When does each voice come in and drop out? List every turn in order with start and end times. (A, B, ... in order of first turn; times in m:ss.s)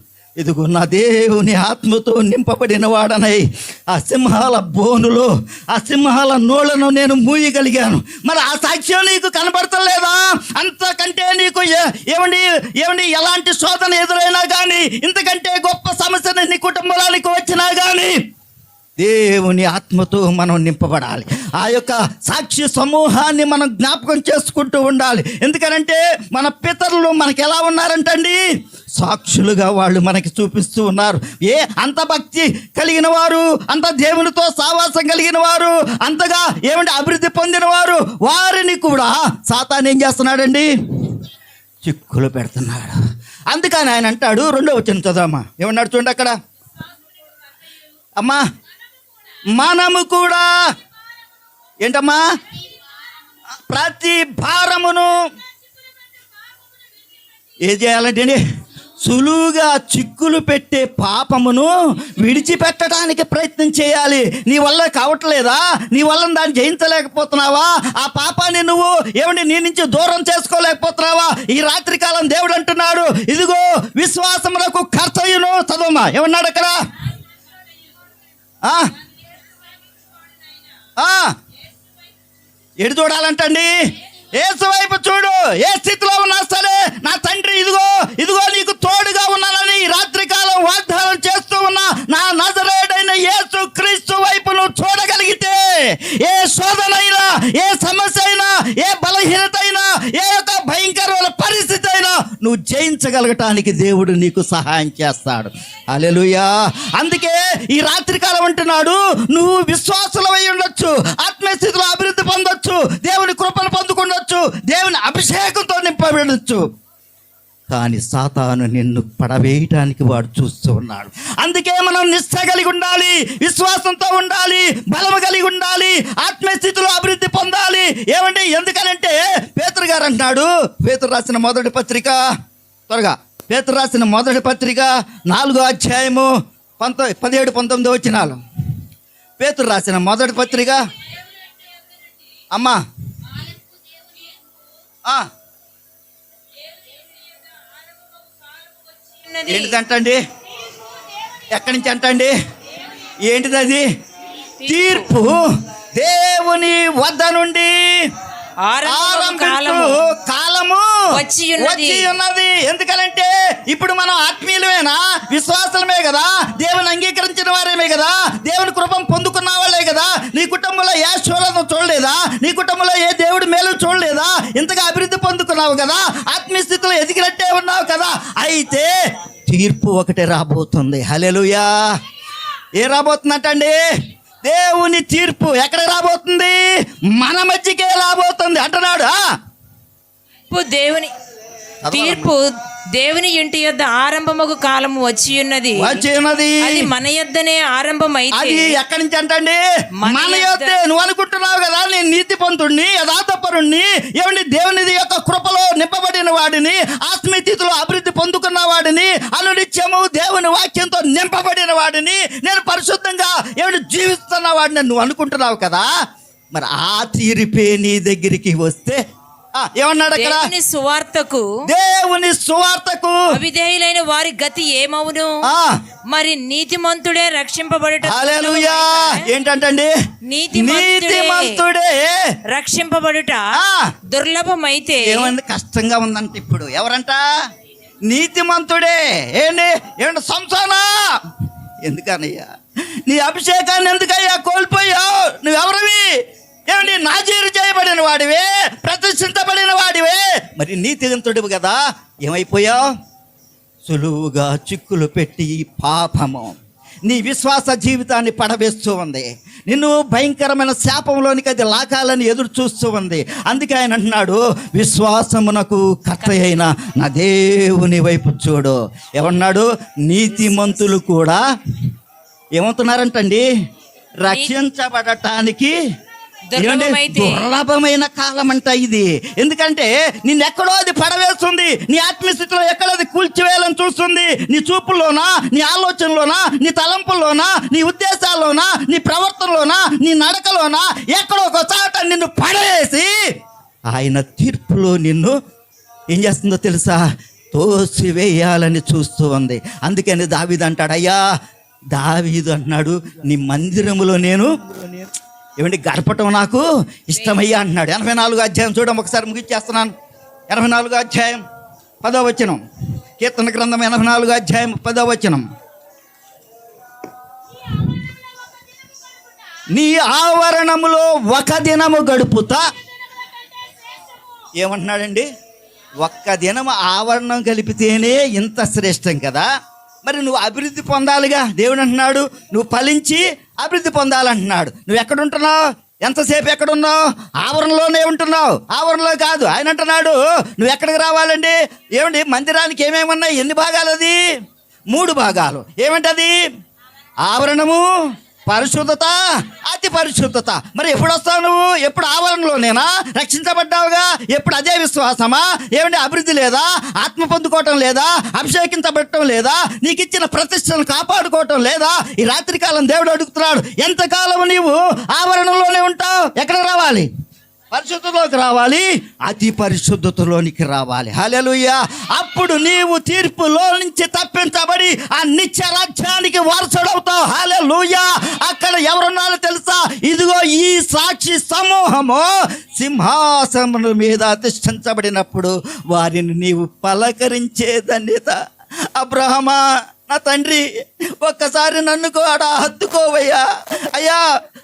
0:00.4-0:18.2 A
0:19.0-0:28.4 A
0:29.0-0:41.1 A
0:41.8-0:43.0 A
0:43.5-0:46.4 A
0:49.5-0:50.5 A
0:51.8-0:52.2 A
0:53.6-0:55.1 A
0:57.6-0:58.4 A
0:59.0-1:16.8 A
1:18.6-1:18.9 A
1:21.0-1:21.3 A
1:22.8-1:23.7 A
1:24.3-1:56.6 A
1:57.7-2:12.2 A
2:12.9-2:18.4 A
2:19.4-2:20.8 A
2:21.4-2:21.8 B
2:22.5-2:23.3 A
2:23.4-2:24.5 B
2:26.6-2:29.8 B
2:29.5-2:30.2 A
2:31.5-2:32.3 A
2:33.2-2:33.8 A
2:34.6-2:35.2 B
2:34.6-2:37.9 A
2:38.6-2:40.0 B
2:38.8-2:40.9 A
2:41.1-2:42.1 B
2:41.6-2:58.9 A
2:59.5-3:01.7 A
3:02.8-3:03.8 A
3:04.4-3:06.6 A
3:07.1-3:09.2 A
3:10.5-3:11.1 B
3:11.8-3:12.3 A
3:11.9-3:16.0 B
3:15.8-3:16.9 A
3:16.6-3:18.8 B
3:18.3-3:35.9 A
3:20.0-3:20.8 B
3:36.5-3:39.0 A
3:39.6-3:40.5 A
3:40.1-3:41.5 B
3:41.7-3:43.3 A
3:43.3-3:45.4 B
3:45.4-3:45.7 A
3:46.1-3:49.3 B
3:48.0-3:49.9 A
3:50.3-3:51.6 B
3:50.5-3:52.3 A
3:52.5-3:53.5 B
3:53.5-3:53.9 A
3:54.1-3:55.3 B
3:55.0-3:57.2 A
3:58.1-4:00.9 A
4:01.8-4:02.5 A
4:03.0-4:06.0 A
4:06.7-4:12.9 A
4:13.8-4:16.5 A
4:17.1-4:31.4 A
4:32.5-4:33.4 A
4:34.2-4:35.7 A
4:34.3-4:34.6 B
4:36.5-4:37.5 B
4:36.6-4:53.1 A
4:53.9-4:55.3 A
4:56.1-5:01.2 A
5:01.9-5:04.5 A
5:05.6-5:09.9 A
5:07.1-5:07.5 B
5:10.5-5:11.4 A
5:12.0-5:12.6 A
5:13.2-5:15.4 A
5:19.7-5:22.6 A
5:24.6-5:25.3 A
5:26.0-5:29.4 A
5:30.0-5:44.2 A
5:44.9-5:46.3 A
5:47.2-5:47.9 A
5:48.5-6:07.1 A
6:07.7-6:28.4 A
6:29.0-6:30.6 A
6:31.2-6:34.2 A